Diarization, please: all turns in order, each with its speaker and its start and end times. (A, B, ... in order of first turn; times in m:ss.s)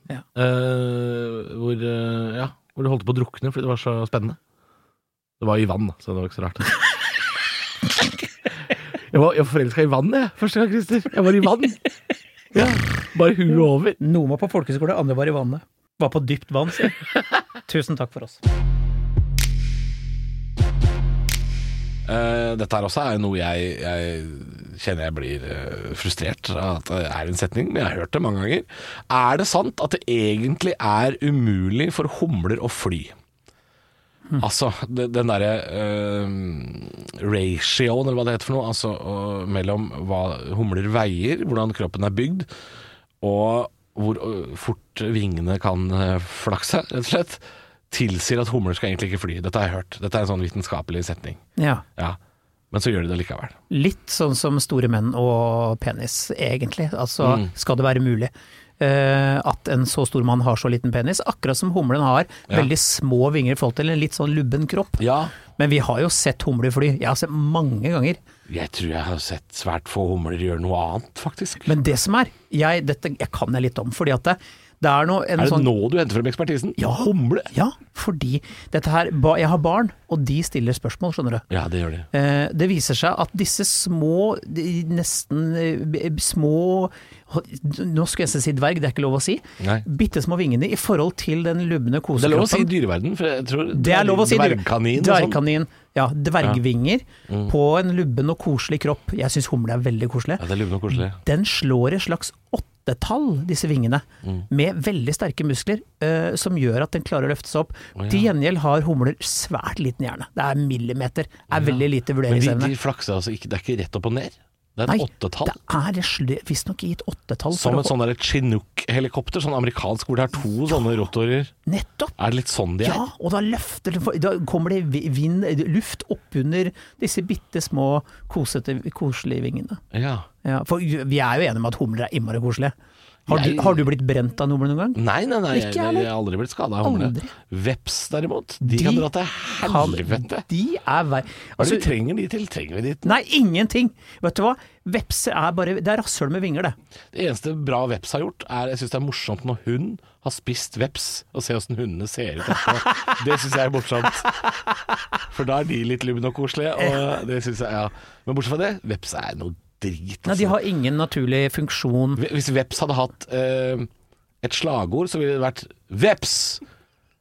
0:00.3-0:04.4 A
0:05.4-0:06.7 A
0:09.1-0:11.8 A
0:12.5-0:14.0 A
0:14.0-0:17.0 B
0:17.6-0:18.4 B
0:22.0-0:33.1 A
0:34.4-0:42.5 A
0:43.2-0:51.4 A
0:51.6-0:51.8 B
0:52.7-0:53.6 A
0:53.7-1:08.2 B
0:57.2-0:57.5 A
1:05.0-1:05.4 A
1:08.5-1:11.7 A
1:11.6-1:15.7 B
1:15.4-1:17.5 A
1:16.8-1:21.4 B
1:21.5-1:22.1 A
1:22.1-1:32.7 B
1:29.6-1:29.8 A
1:32.2-1:35.4 A
1:33.7-1:52.7 B
1:37.3-1:37.5 A
1:40.4-1:41.2 A
1:48.0-1:48.3 A
1:51.5-1:55.6 A
1:54.9-1:57.9 B
1:57.5-2:01.5 A
2:01.6-2:02.1 B
2:02.2-2:03.0 A
2:02.8-2:09.8 B
2:09.9-2:10.3 A
2:10.4-2:12.7 B
2:13.3-2:13.8 A
2:13.3-2:15.0 B
2:15.0-2:20.4 A
2:15.5-2:16.1 B
2:16.8-2:17.3 B
2:18.6-2:19.1 B
2:19.6-2:21.9 B
2:21.6-2:23.2 A
2:23.0-2:26.8 B
2:27.1-2:34.4 A
2:32.6-2:33.1 B
2:35.3-2:40.6 A
2:40.2-2:42.2 B
2:42.2-2:43.9 A
2:44.4-2:46.6 A